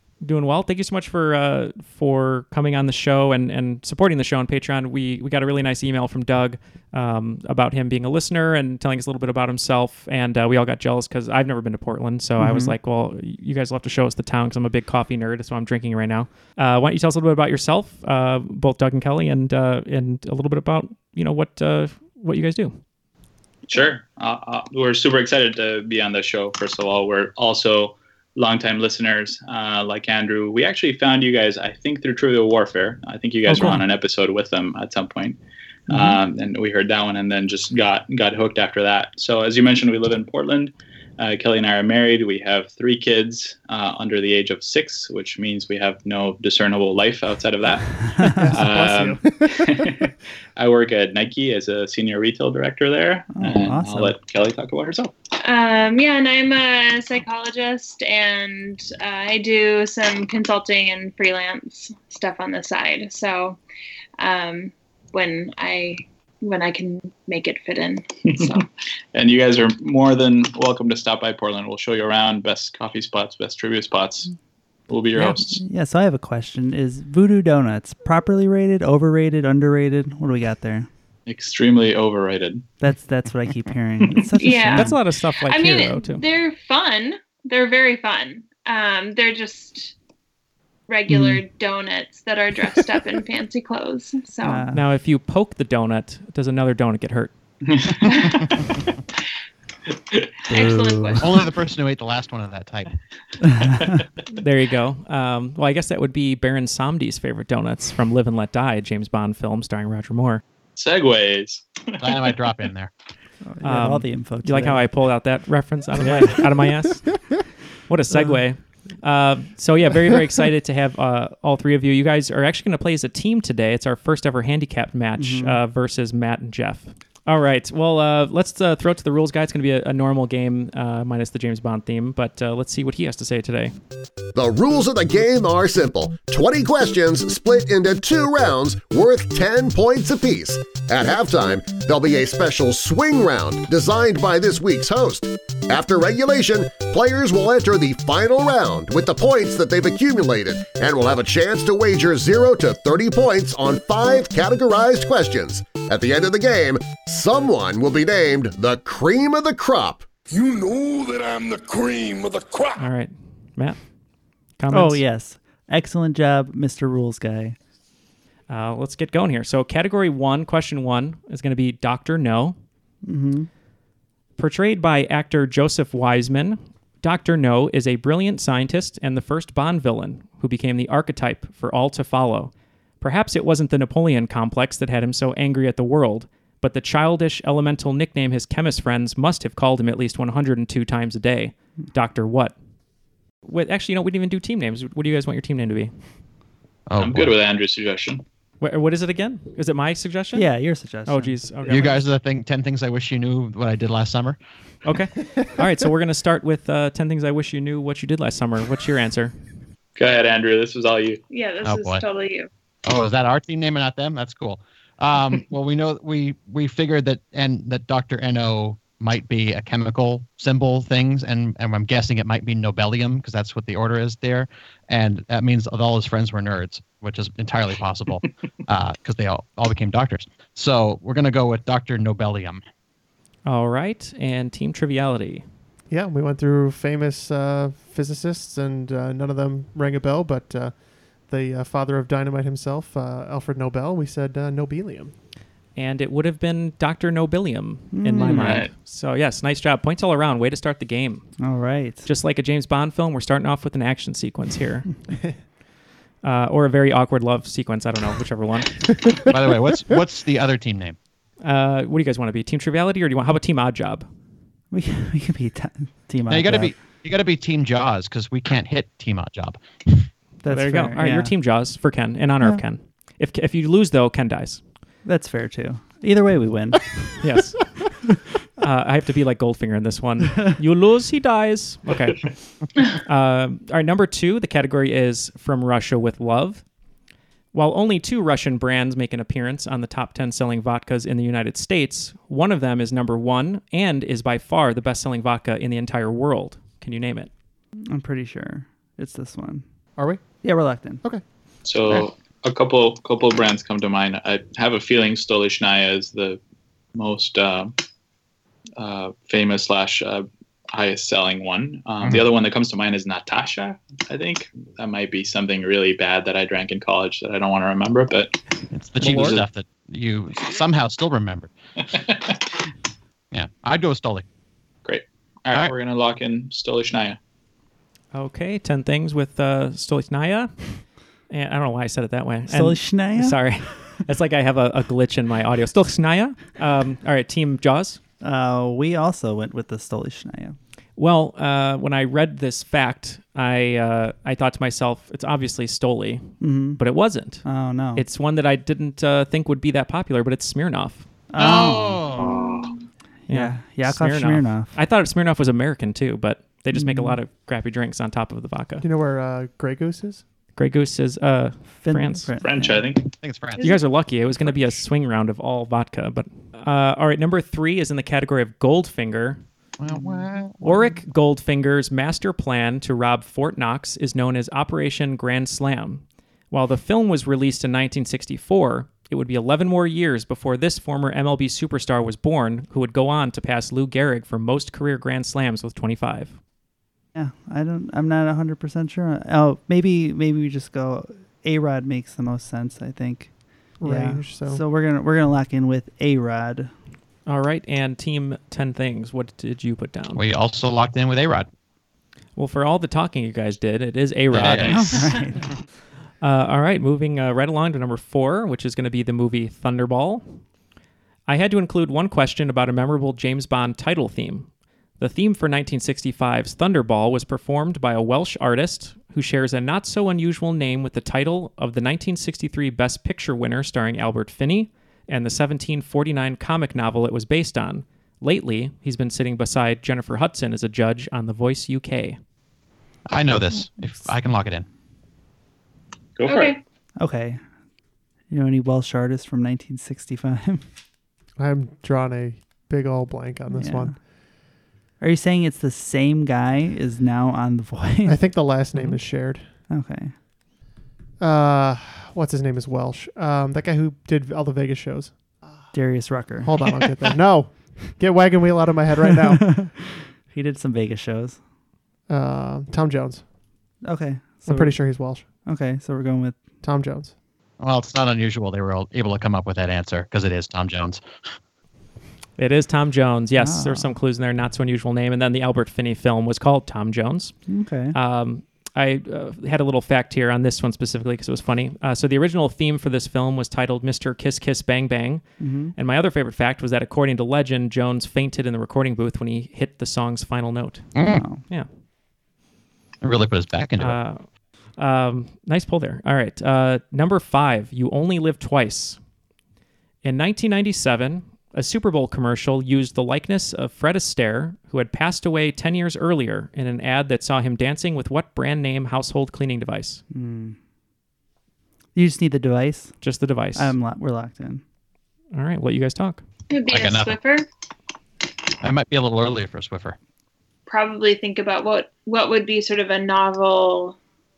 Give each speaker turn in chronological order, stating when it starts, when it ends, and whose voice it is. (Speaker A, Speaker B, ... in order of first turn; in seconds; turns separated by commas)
Speaker A: 0.2-22.8, Speaker B: 12.4-12.8, Speaker C: 23.7-35.4, Speaker B: 33.5-33.8, Speaker C: 35.9-55.1, Speaker B: 35.9-36.1, Speaker D: 48.4-49.9, Speaker B: 53.3-54.2, Speaker E: 55.4-63.6, Speaker E: 64.2-68.7, Speaker C: 68.3-74.3, Speaker C: 74.9-75.6, Speaker A: 75.1-75.6, Speaker B: 75.6-80.9, Speaker C: 81.3-82.6, Speaker B: 82.8-85.0, Speaker E: 84.4-84.9, Speaker A: 84.7-86.2, Speaker E: 85.4-89.9, Speaker E: 90.9-94.7, Speaker B: 91.1-91.4, Speaker B: 94.4-94.8, Speaker A: 94.7-97.3, Speaker C: 97.8-98.5, Speaker E: 100.5-101.2, Speaker B: 100.5-101.4, Speaker F: 101.2-103.0, Speaker B: 103.7-103.9, Speaker A: 104.3-110.4, Speaker C: 110.8-112.3, Speaker F: 112.0-112.9, Speaker B: 113.4-114.8, Speaker A: 113.6-117.1, Speaker B: 116.0-116.5, Speaker A: 117.9-133.7, Speaker B: 118.1-118.4, Speaker B: 125.2-125.6, Speaker G: 134.3-160.1, Speaker H: 160.3-162.8, Speaker A: 162.8-163.8, Speaker A: 164.6-165.0, Speaker B: 164.7-167.6, Speaker A: 168.5-172.6, Speaker B: 173.0-173.5, Speaker A: 174.4-192.5, Speaker A: 193.4-195.9, Speaker F: 196.9-197.3, Speaker C: 197.0-198.2, Speaker A: 198.6-200.5, Speaker B: 200.3-202.0, Speaker A: 201.0-201.9, Speaker F: 201.7-204.4, Speaker A: 204.8-209.3, Speaker C: 209.9-211.2, Speaker E: 211.3-212.5, Speaker F: 211.6-212.0, Speaker F: 212.8-232.6, Speaker A: 233.4-235.4, Speaker D: 235.9-245.1, Speaker A: 245.8-251.3, Speaker B: 247.9-248.7, Speaker C: 248.2-248.7, Speaker B: 251.4-252.1, Speaker A: 252.0-254.9, Speaker A: 256.2-258.9, Speaker F: 259.3-261.0, Speaker A: 261.4-264.0, Speaker B: 264.7-266.8, Speaker F: 266.3-270.1, Speaker B: 270.4-271.3, Speaker A: 270.4-274.6, Speaker B: 275.0-277.2, Speaker A: 277.2-277.7, Speaker A: 278.6-286.6, Speaker A: 287.5-297.3, Speaker B: 297.9-299.6, Speaker D: 300.0-300.3, Speaker B: 300.4-301.0, Speaker C: 301.6-306.4, Speaker C: 306.9-307.7, Speaker C: 308.8-318.4, Speaker F: 312.0-312.3, Speaker F: 318.7-321.5, Speaker A: 319.0-319.4, Speaker C: 319.0-319.4, Speaker D: 319.1-319.3, Speaker C: 321.9-322.4, Speaker F: 323.3-324.2, Speaker C: 324.8-327.2, Speaker A: 328.1-338.0, Speaker B: 332.5-333.5, Speaker B: 338.2-340.6, Speaker A: 341.0-351.1, Speaker B: 346.4-346.8, Speaker B: 347.4-348.0, Speaker B: 351.3-352.1, Speaker F: 351.4-352.4, Speaker C: 352.2-352.7, Speaker B: 353.3-354.7, Speaker A: 353.3-358.9, Speaker B: 356.7-357.2, Speaker D: 358.8-360.2, Speaker A: 360.6-362.3, Speaker B: 361.7-362.9, Speaker C: 362.4-363.0, Speaker F: 363.2-363.7, Speaker A: 363.6-369.4, Speaker F: 364.3-364.8, Speaker F: 369.8-370.9, Speaker A: 370.6-386.4, Speaker B: 387.1-396.7, Speaker D: 393.8-394.6, Speaker A: 397.3-400.2, Speaker F: 400.1-401.5, Speaker A: 402.4-405.1, Speaker F: 404.3-404.9, Speaker C: 404.5-404.9, Speaker B: 404.7-405.5, Speaker A: 406.2-410.4, Speaker A: 411.3-432.2, Speaker F: 433.1-434.7, Speaker C: 436.2-436.6, Speaker E: 436.2-436.6, Speaker B: 437.0-437.4, Speaker B: 438.3-440.6, Speaker D: 441.4-443.9, Speaker B: 443.5-444.0, Speaker B: 445.0-448.3, Speaker D: 448.1-449.5, Speaker B: 449.7-450.2, Speaker D: 451.2-455.7, Speaker B: 455.7-456.9, Speaker D: 456.4-459.6, Speaker B: 459.1-461.4, Speaker D: 462.1-463.2, Speaker B: 463.8-466.5, Speaker D: 464.4-465.3, Speaker D: 466.6-467.1, Speaker F: 467.6-471.0, Speaker A: 472.4-477.4, Speaker B: 473.4-473.9, Speaker B: 477.5-477.9, Speaker A: 477.9-491.0, Speaker B: 485.4-485.7, Speaker F: 490.9-491.2, Speaker B: 491.0-491.4, Speaker F: 493.0-494.0, Speaker A: 493.8-494.2, Speaker A: 494.8-499.0, Speaker A: 500.0-510.0, Speaker B: 510.1-510.6, Speaker B: 511.9-513.0, Speaker A: 513.0-513.7, Speaker B: 513.5-514.6, Speaker A: 515.3-516.2, Speaker E: 516.5-517.4, Speaker F: 516.7-517.2, Speaker F: 518.6-520.0, Speaker E: 520.7-524.0